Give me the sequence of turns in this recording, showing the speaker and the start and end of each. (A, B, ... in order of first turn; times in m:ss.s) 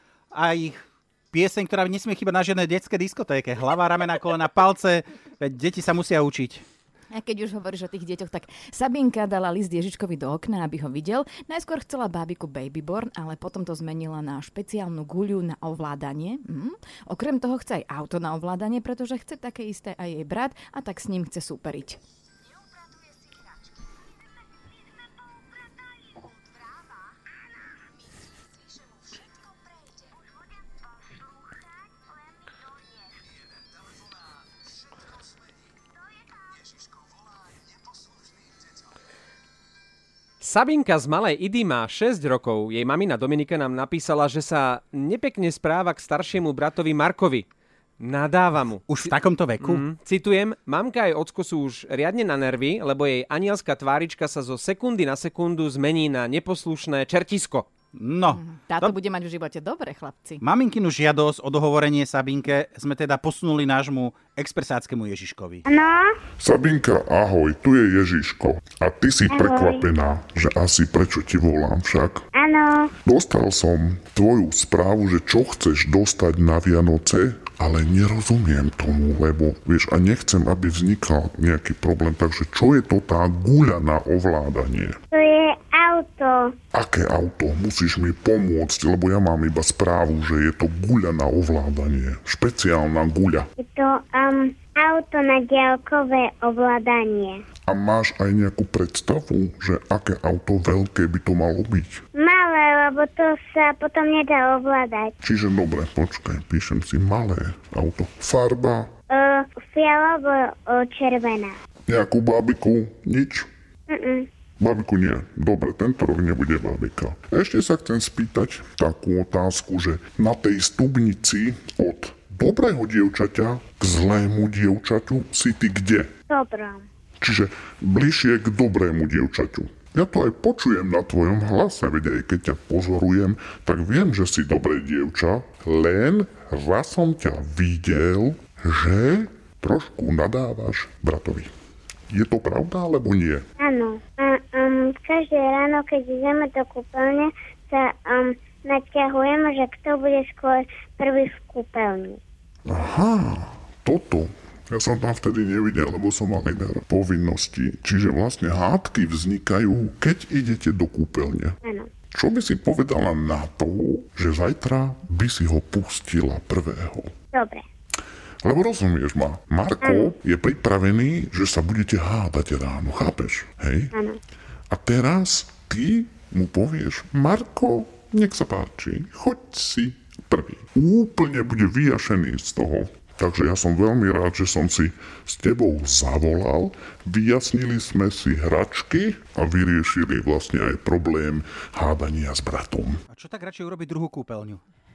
0:00.3-0:06.6 A
0:07.1-0:22.0 B
0:40.4-0:47.4 C
0:48.0-0:57.7 C
0:48.9-0:49.8 A
0:58.0-0:58.9 A
0:58.3-1:00.4 B
1:00.4-1:05.6 A
1:05.6-1:06.1 D
1:06.4-1:12.2 E
1:09.3-1:09.8 D
1:12.4-1:12.9 D
1:13.0-1:25.0 E
1:25.1-1:26.5 D
1:26.7-1:33.5 E
1:33.6-1:37.4 D
1:37.7-1:42.0 E
1:42.2-1:45.1 D
1:45.2-1:48.9 E
1:49.1-1:51.5 D
1:51.9-1:53.5 E
1:53.9-1:54.3 D
1:54.6-2:06.1 E
2:06.3-2:06.8 D
2:07.2-2:21.5 E
2:22.1-2:23.4 E
2:23.6-2:32.2 D
2:32.6-2:41.6 E
2:42.1-2:47.1 E
2:47.3-2:47.6 D
2:48.4-2:53.9 E
2:49.8-2:50.1 D
2:54.7-3:13.0 E
3:13.1-3:14.6 A